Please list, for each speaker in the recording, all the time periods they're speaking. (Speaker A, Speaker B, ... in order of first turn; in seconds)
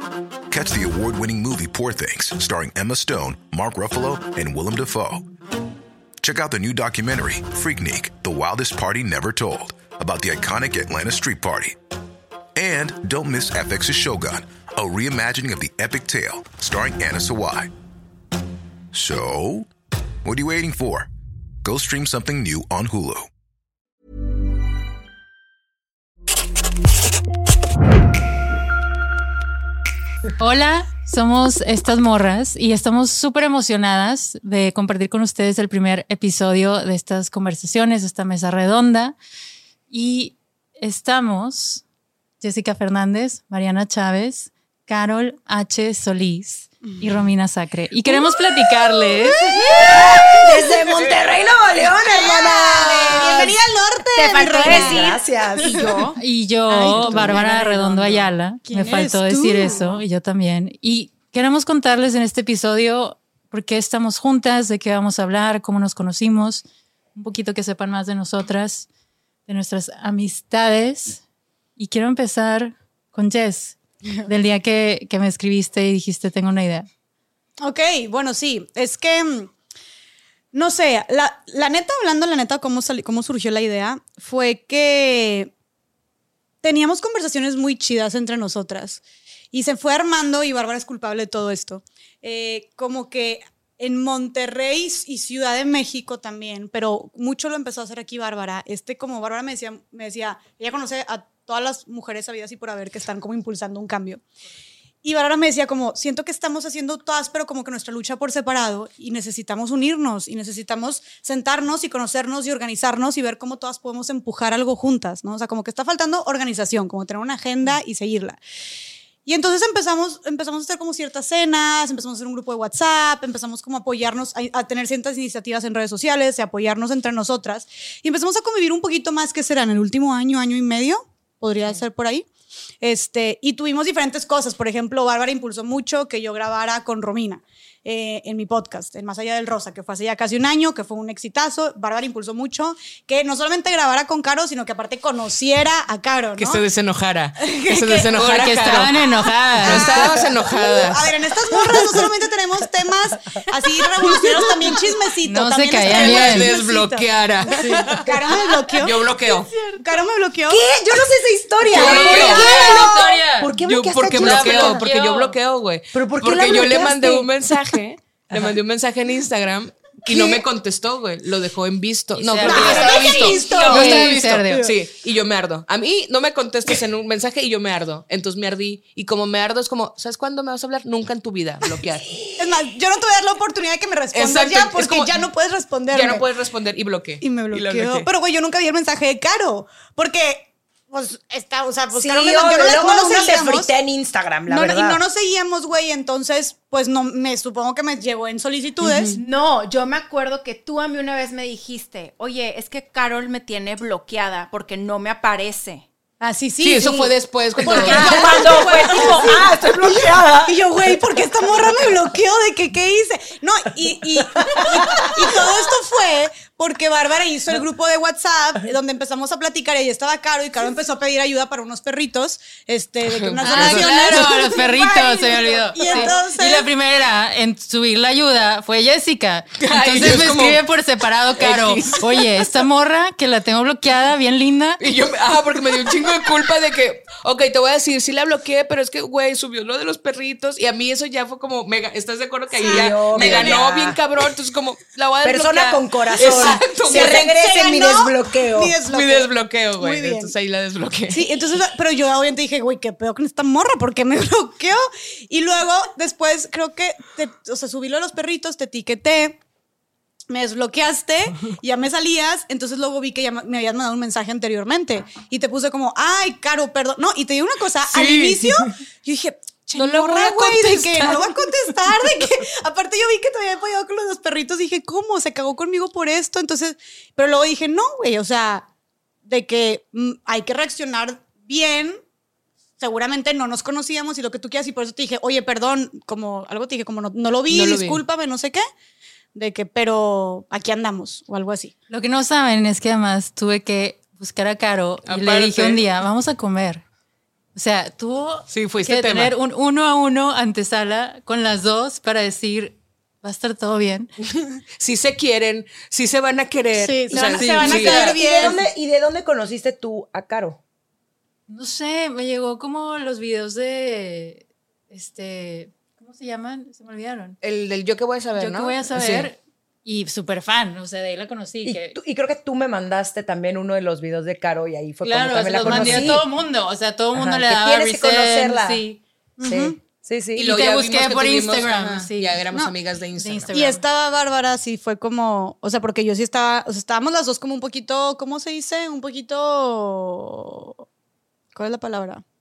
Speaker A: 0.5-5.2, 6.2-11.8, 12.6-17.7, 18.9-19.7, 20.2-21.1, 21.6-23.3
Speaker B: 30.4-39.1, 39.9-41.8, 42.4-49.4, 56.2-66.6, 67.1-68.9, 69.5-71.2, 71.8-76.9, 148.2-150.0, 155.2-156.5, 162.4-163.4, 164.2-165.3, 172.1-172.9, 173.5-174.7, 223.4-234.8, 291.9-296.8, 297.5-304.1, 311.5-317.4, 318.3-321.9, 325.0-329.0, 330.4-332.4, 333.2-333.8
Speaker C: 49.1-50.7, 52.0-56.0, 56.7-60.0, 77.6-79.5, 80.5-85.5, 86.6-104.2, 105.0-118.4, 119.2-132.3, 132.8-146.6, 147.4-148.1, 149.6-160.7, 161.7-162.6, 172.7-173.9, 182.3-186.3, 187.2-193.7, 194.5-199.1, 206.2-226.7, 242.6-243.6, 246.4-250.3, 251.1-259.4, 260.3-278.7, 279.2-282.0, 282.8-288.6, 289.3-291.7, 306.8-308.6, 325.7-326.0, 329.4-329.8, 333.5-340.8, 341.5-342.2
Speaker D: 49.9-53.6, 54.6-56.0, 160.5-164.8, 165.9-167.3, 170.1-170.4, 182.1-182.5, 191.9-195.0, 242.6-244.0, 245.2-248.8, 307.6-310.6, 321.6-326.2, 327.1-328.8, 329.4-330.5
Speaker E: 51.0-51.2, 146.3-149.0, 149.6-151.1, 155.8-159.5, 161.7-182.2, 184.1-185.2, 185.9-188.1, 198.8-199.2, 206.6-208.7, 223.1-224.7, 229.6-230.6, 231.4-232.3, 234.8-247.5, 248.8-251.5, 267.8-268.7, 269.7-271.3, 287.5-288.0, 295.0-295.9, 298.5-299.3, 304.8-308.2, 317.4-319.3, 325.7-326.2, 330.3-333.7
Speaker F: 54.1-56.2, 154.1-154.8, 159.5-160.0, 161.9-163.2, 164.9-165.2, 172.5-174.1, 199.1-205.8, 207.6-210.5, 307.1-308.5